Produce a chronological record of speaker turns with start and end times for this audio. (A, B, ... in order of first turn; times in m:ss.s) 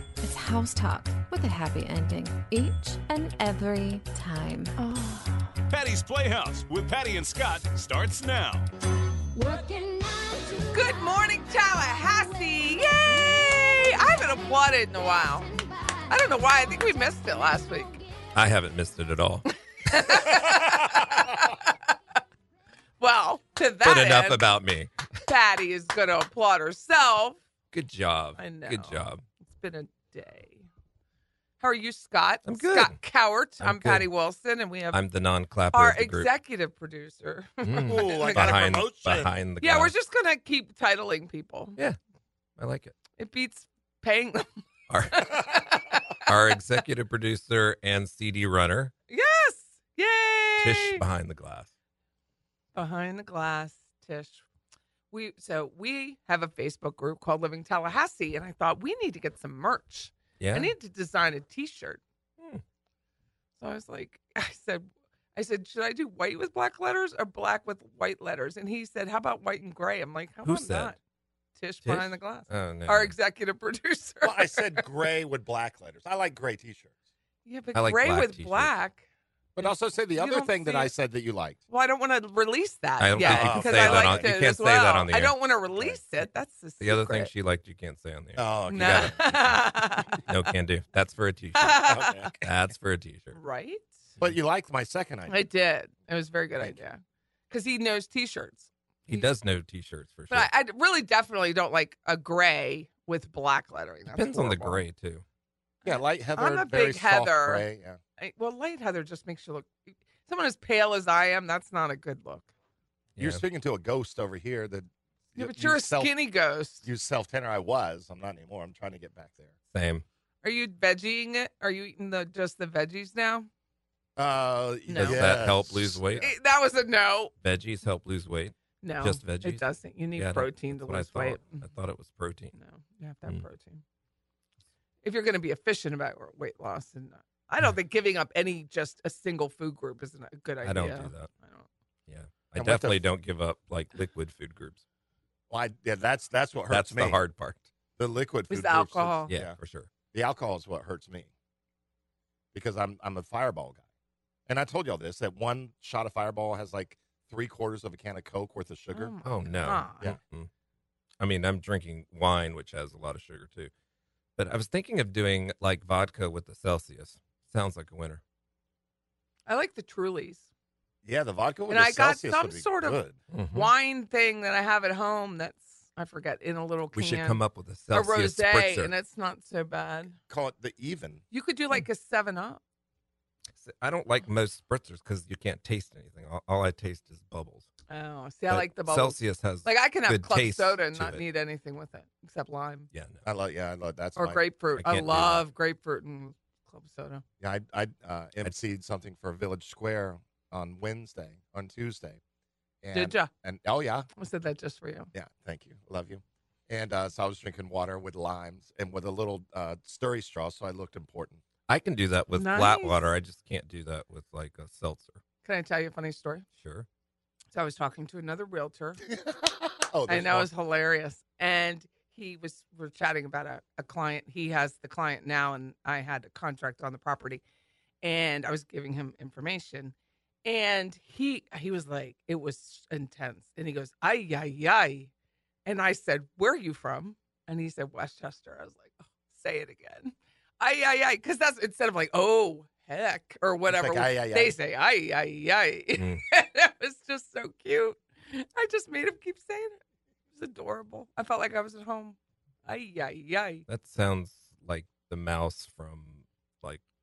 0:00.2-0:05.4 A
0:05.7-0:08.7 B
0:09.3-0:18.3 C
0:10.7-0:15.4 D
0:16.1-0:18.0 D
0:18.3-0:19.4 E
0:19.9-0:21.9 D
0:20.0-0:20.3 E
0:23.0-0:24.4 D
0:23.8-0:25.0 E
0:25.2-0:27.4 D
0:27.7-0:29.2 E
0:28.4-0:30.7 D
0:31.6-0:35.0 D
0:32.4-0:33.0 E
0:33.6-0:34.1 E
0:34.9-0:36.3 E
0:35.7-0:38.5 D
0:37.6-0:39.9 E
0:37.8-0:39.3 F
0:39.6-0:41.8 D
0:42.6-0:42.9 E
0:43.2-0:44.6 D
0:44.9-0:48.9 E
0:45.1-0:46.2 D
0:49.1-0:51.0 D
0:50.6-0:51.7 E
0:52.8-0:54.4 D
0:55.1-1:02.0 D
1:00.4-1:00.7 E
1:03.6-1:11.0 D
1:10.4-1:10.9 E
1:11.6-1:14.9 D
1:11.8-1:13.1 E
1:14.2-1:16.9 F
1:17.4-1:19.0 D
1:17.8-1:18.7 E
1:19.6-1:21.6 F
1:19.6-1:20.9 D
1:21.7-1:27.3 D
1:23.0-1:25.4 E
1:23.2-1:24.3 F
1:26.8-1:29.6 E
1:28.4-1:29.2 F
1:28.7-1:30.3 D
1:30.2-1:33.4 E
1:31.6-1:32.2 D
1:31.9-1:32.4 F
1:33.3-1:33.9 D
1:34.2-1:35.4 F
1:35.3-1:39.3 D
1:39.1-1:40.5 E
1:40.3-1:44.8 D
1:44.1-1:45.2 E
1:45.8-1:48.0 F
1:45.9-1:47.7 D
1:48.2-1:52.5 D
1:53.2-1:53.4 E
1:53.2-1:56.2 F
1:55.4-1:56.8 D
1:56.8-1:59.5 F
1:59.7-2:00.0 E
2:00.4-2:03.5 D
2:04.2-2:06.2 F
2:04.9-2:05.3 D
2:05.0-2:06.3 E
2:06.2-2:07.3 D
2:07.4-2:12.5 E
2:08.8-2:11.6 D
2:12.5-2:13.8 D
2:15.0-2:21.7 D
2:20.6-2:21.3 E
2:22.1-2:24.8 E
2:22.6-2:23.1 F
2:25.5-2:27.2 F
2:26.7-2:27.7 E
2:28.0-2:29.6 F
2:28.5-2:29.3 D
2:29.3-2:29.9 E
2:30.1-2:31.3 F
2:32.5-2:33.8 F
2:34.5-2:39.1 F
2:38.9-2:40.1 D
2:39.2-2:40.5 E
2:41.2-2:43.7 E
2:44.4-2:48.2 E
2:49.5-2:50.5 D
2:51.0-2:53.2 F
2:51.7-2:53.0 D
2:53.3-2:53.7 E
2:53.5-3:00.2 D
2:56.9-2:58.9 E
3:00.3-3:01.2 F
3:01.3-3:02.6 D
3:03.6-3:07.7 E
3:07.9-3:12.9 D
3:08.5-3:11.2 E
3:12.9-3:13.2 E
3:13.2-3:14.4 F
3:14.2-3:17.2 D
3:14.8-3:15.4 E
3:17.4-3:22.2 F
3:22.8-3:24.1 F
3:22.9-3:23.3 D
3:24.2-3:25.1 D
3:25.1-3:31.4 F
3:31.7-3:35.2 E
3:32.3-3:33.0 D
3:35.4-3:36.4 D
3:36.6-3:36.9 E
3:37.5-3:39.0 D
3:39.0-3:40.5 F
3:40.1-3:47.4 D
3:48.0-3:49.9 D
3:50.4-3:55.1 D
3:55.6-4:09.8 D
4:03.6-4:04.6 F
4:06.0-4:06.2 E
4:10.3-4:13.6 D
4:13.7-4:16.8 E